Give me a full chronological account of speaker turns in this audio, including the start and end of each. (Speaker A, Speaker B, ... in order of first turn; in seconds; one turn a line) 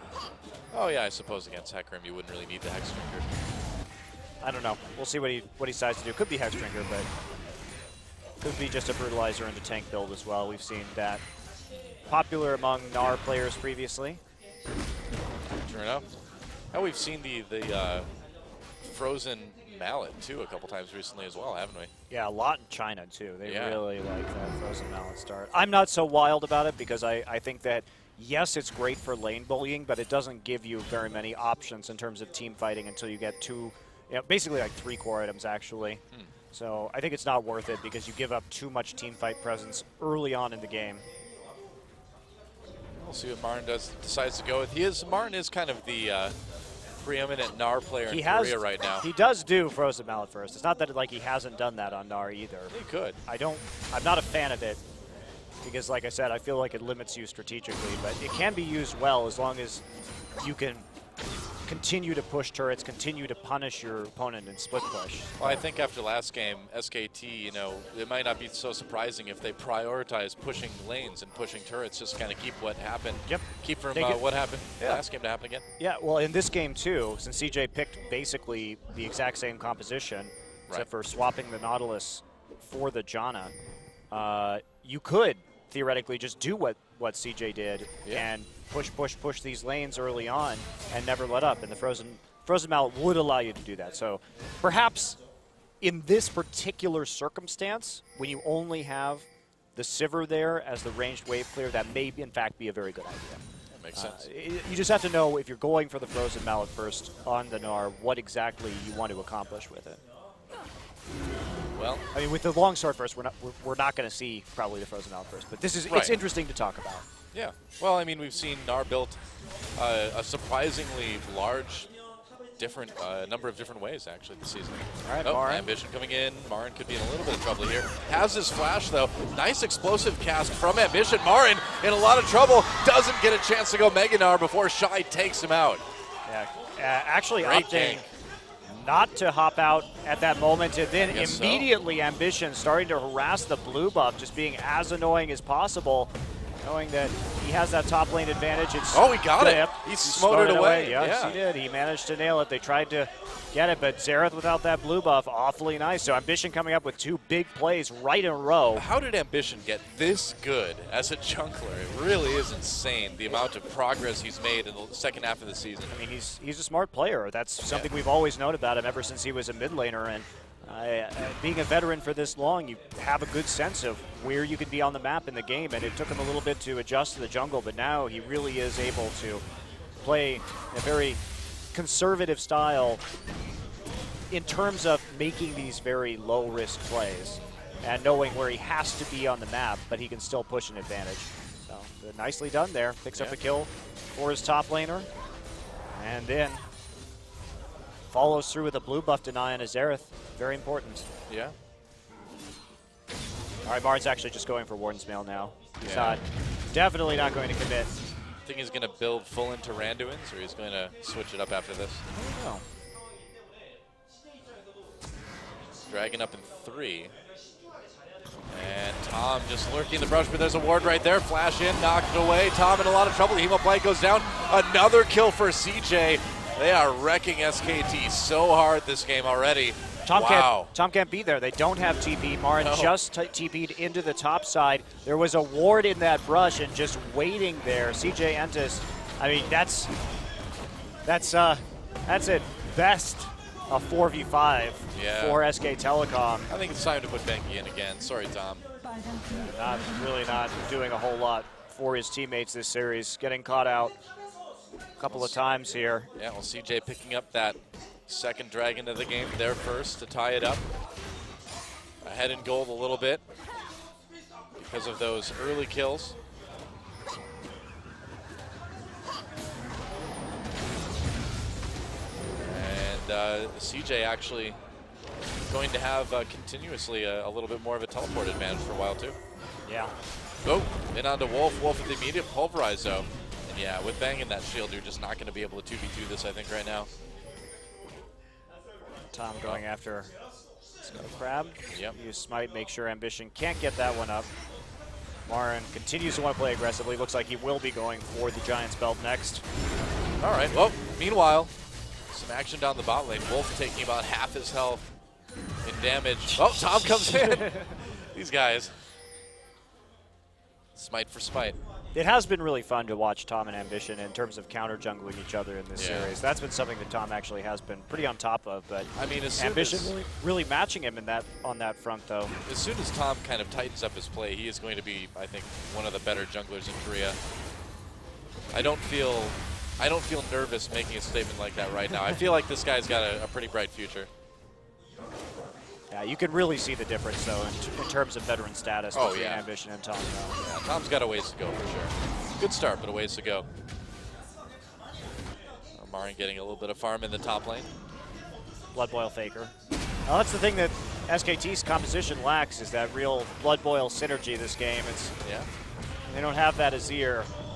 Speaker A: 0.7-3.3
Speaker B: 4.4-7.1
Speaker B: 8.4-11.2
Speaker A: 11.7-12.0
Speaker B: 12.1-14.2
Speaker A: 15.5-16.1
Speaker A: 16.7-18.1
Speaker A: 18.8-21.9
Speaker B: 22.1-41.0
Speaker A: 23.4-23.8
Speaker A: 43.0-46.3
Speaker A: 46.9-49.0
Speaker B: 48.1-52.7
Speaker A: 52.7-53.2
Speaker B: 53.2-54.8
Speaker B: 55.6-59.8
Speaker B: 60.4-60.9
Speaker B: 61.7-65.6
Speaker A: 65.4-75.6
Speaker B: 73.2-74.2
Speaker B: 75.8-83.5
Speaker B: 84.1-95.2
Speaker B: 95.8-110.0
Speaker A: 103.7-104.3
Speaker A: 111.7-112.0
Speaker B: 112.1-117.0
Speaker A: 115.9-116.2
Speaker A: 117.3-119.2
Speaker A: 119.8-121.9
Speaker A: 122.6-135.8
Speaker B: 125.0-125.7
Speaker B: 136.3-138.0
Speaker A: 137.4-138.1
Speaker B: 138.7-158.8
Speaker A: 141.1-141.7
Speaker A: 148.9-151.4
Speaker A: 158.7-165.9
Speaker B: 165.9-179.4
Speaker B: 180.0-181.2
Speaker B: 181.7-183.0
Speaker B: 184.3-195.1
Speaker B: 195.9-196.6
Speaker B: 198.1-201.1
Speaker A: 201.3-201.5
Speaker B: 203.6-207.9
Speaker A: 205.8-206.2
Speaker A: 208.4-212.0
Speaker B: 212.1-212.6
Speaker A: 215.9-217.1
Speaker A: 218.5-230.7
Speaker B: 230.1-239.9
Speaker A: 232.6-232.9
Speaker B: 241.0-246.5
Speaker A: 244.9-245.4
Speaker A: 246.5-248.6
Speaker B: 249.3-253.9
Speaker B: 255.0-256.1
Speaker A: 255.1-255.3
Speaker A: 256.1-260.6
Speaker A: 262.0-263.2
Speaker A: 264.6-266.1
Speaker A: 272.4-274.6
Speaker A: 275.5-279.1
Speaker B: 279.6-279.9
Speaker A: 280.4-286.9
Speaker B: 289.1-290.1
Speaker B: 290.8-294.3
Speaker B: 295.3-299.4
Speaker A: 300.2-301.5
Speaker A: 302.1-304.9
Speaker A: 305.6-308.7
Speaker B: 307.0-307.7
Speaker A: 310.7-311.6
Speaker B: 311.9-322.4
Speaker A: 315.8-316.1
Speaker A: 318.9-319.9
Speaker A: 322.4-327.2
Speaker A: 328.5-334.1
Speaker B: 335.9-340.4
Speaker A: 338.9-339.5
Speaker A: 340.4-343.4
Speaker A: 345.7-347.7
Speaker B: 348.7-349.5
Speaker B: 350.1-355.1
Speaker A: 355.2-355.5
Speaker B: 356.1-357.3